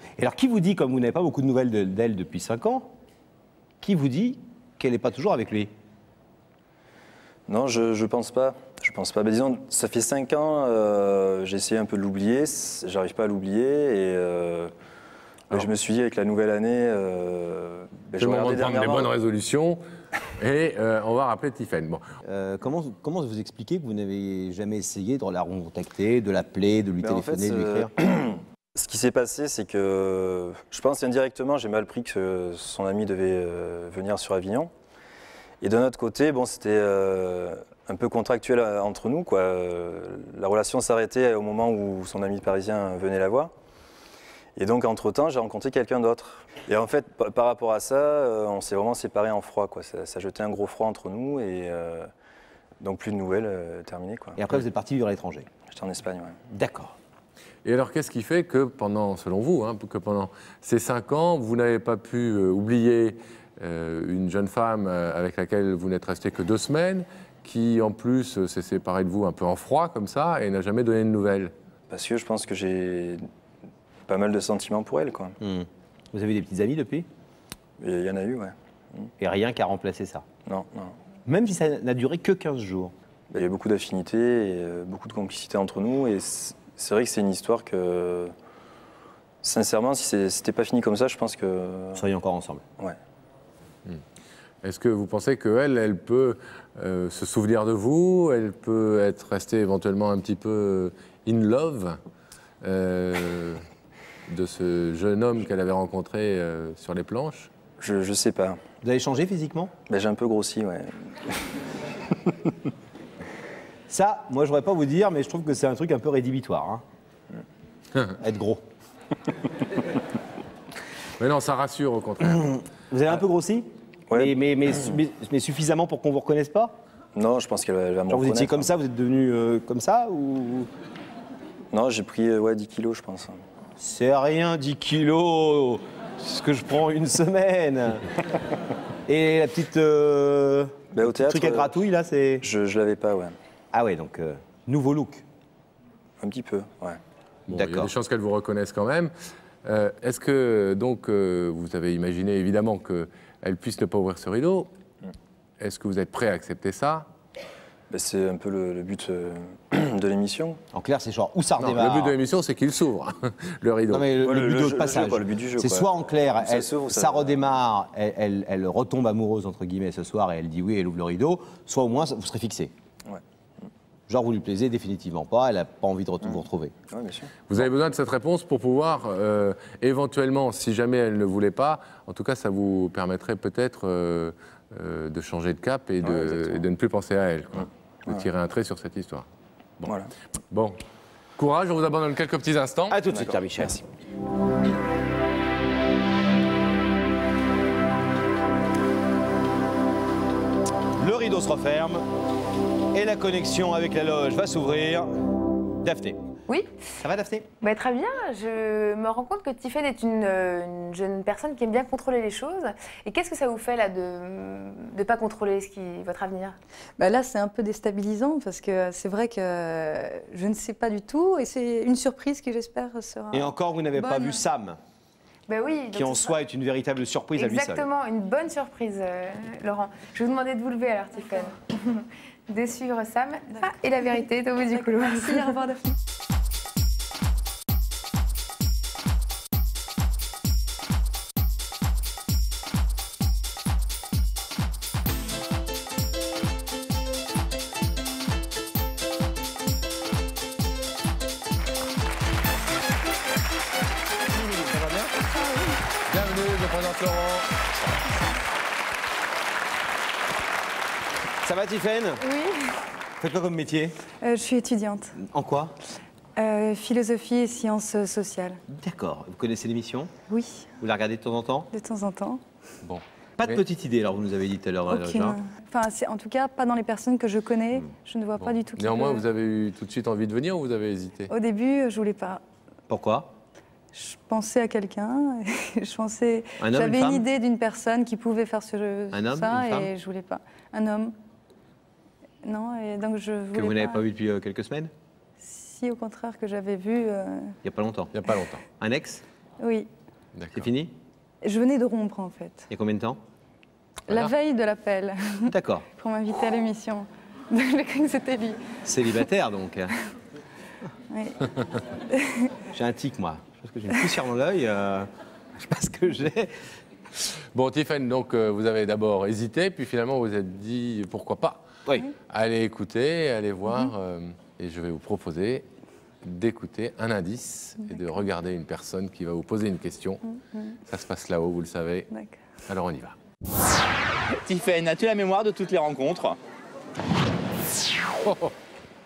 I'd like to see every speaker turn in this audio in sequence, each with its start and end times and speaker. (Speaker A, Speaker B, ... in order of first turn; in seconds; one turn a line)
Speaker A: 0.2-2.9
Speaker A: 3.8-5.7
Speaker B: 7.5-14.7
Speaker B: 15.5-19.1
Speaker C: 18.2-19.8
Speaker C: 20.4-22.0
Speaker A: 22.2-27.9
Speaker B: 27.0-34.7
Speaker B: 35.6-43.5
Speaker B: 44.5-52.1
Speaker B: 52.8-54.4
Speaker A: 54.4-55.5
Speaker B: 55.7-56.4
Speaker A: 56.5-56.9
Speaker C: 57.6-71.5
Speaker B: 71.9-73.2
Speaker B: 74.1-75.3
Speaker A: 75.4-77.1
Speaker B: 77.8-79.1
Speaker A: 79.2-80.2
Speaker B: 80.5-80.9
Speaker A: 81.3-82.9
Speaker B: 83.3-88.3
Speaker B: 89.4-92.0
Speaker A: 92.0-92.6
Speaker C: 94.6-102.0
Speaker C: 102.6-103.6
Speaker C: 104.3-107.5
Speaker B: 107.8-108.6
Speaker A: 108.8-109.7
Speaker B: 109.9-111.1
Speaker A: 113.9-116.8
Speaker A: 118.2-118.6
Speaker C: 121.2-122.5
Speaker A: 122.9-126.8
Speaker B: 124.1-124.9
Speaker B: 127.1-128.7
Speaker A: 128.1-130.7
Speaker B: 131.7-133.4
Speaker A: 133.8-138.1
Speaker A: 139.1-142.4
Speaker B: 140.9-141.7
Speaker B: 142.4-143.3
Speaker A: 143.7-145.2
Speaker B: 146.2-147.0
Speaker C: 147.5-149.1
Speaker A: 147.5-147.9
Speaker C: 149.6-154.7
Speaker C: 155.6-157.1
Speaker B: 157.9-160.6
Speaker A: 160.7-162.1
Speaker C: 161.6-164.1
Speaker A: 163.9-172.7
Speaker B: 164.2-167.4
Speaker A: 174.1-176.7
Speaker B: 176.9-177.3
Speaker C: 177.5-189.2
Speaker B: 186.0-186.6
Speaker B: 189.8-190.1
Speaker C: 190.5-190.8
Speaker C: 191.4-193.0
Speaker A: 192.9-193.8
Speaker B: 193.1-193.8
Speaker A: 201.0-202.0
Speaker A: 202.9-205.1
Speaker A: 205.8-206.2
Speaker D: 206.5-206.8
Speaker A: 207.0-207.4
Speaker D: 207.6-216.6
Speaker E: 217.0-224.4
Speaker A: 223.3-224.8
Speaker D: 225.5-226.3
Speaker A: 225.9-227.9
Speaker D: 227.4-235.7
Speaker E: 234.7-235.8
Speaker A: 254.5-255.1
Speaker C: 256.1-257.5
Speaker A: 261.4-262.2
Speaker E: 262.3-262.6
Speaker A: 263.2-263.9
Speaker E: 264.2-265.1
Speaker A: 265.2-265.7
Speaker E: 266.4-268.6
Speaker A: 268.7-270.1
Speaker E: 270.3-270.7
Speaker A: 270.8-271.7
Speaker E: 271.7-272.4
Speaker A: 273.4-275.4
Speaker E: 274.9-279.2
Speaker C: 278.4-281.3
Speaker E: 281.3-282.4
Speaker A: 282.9-283.3
Speaker E: 283.9-291.1
Speaker A: 286.6-287.2
Speaker A: 289.1-289.9
Speaker E: 292.4-294.0
Speaker A: 293.5-294.9
Speaker E: 295.4-297.5
Speaker A: 297.6-299.2
Speaker E: 299.6-299.9
Speaker C: 300.4-300.6
Speaker A: 300.5-300.9
Speaker E: 301.4-302.7
Speaker A: 302.7-303.2
Speaker E: 304.1-308.6
Speaker A: 305.5-305.9
Speaker A: 308.8-309.9
Speaker E: 311.1-311.4
Speaker E: 312.1-312.5
Speaker A: 312.7-316.5
Speaker C: 317.5-321.6
Speaker C: 322.3-325.6
Speaker C: 326.2-330.2
Speaker E: 327.8-328.2
Speaker C: 330.9-332.1
Speaker E: 332.1-332.4
Speaker C: 332.7-333.1
Speaker F: 334.4-336.4
Speaker C: 338.3-338.5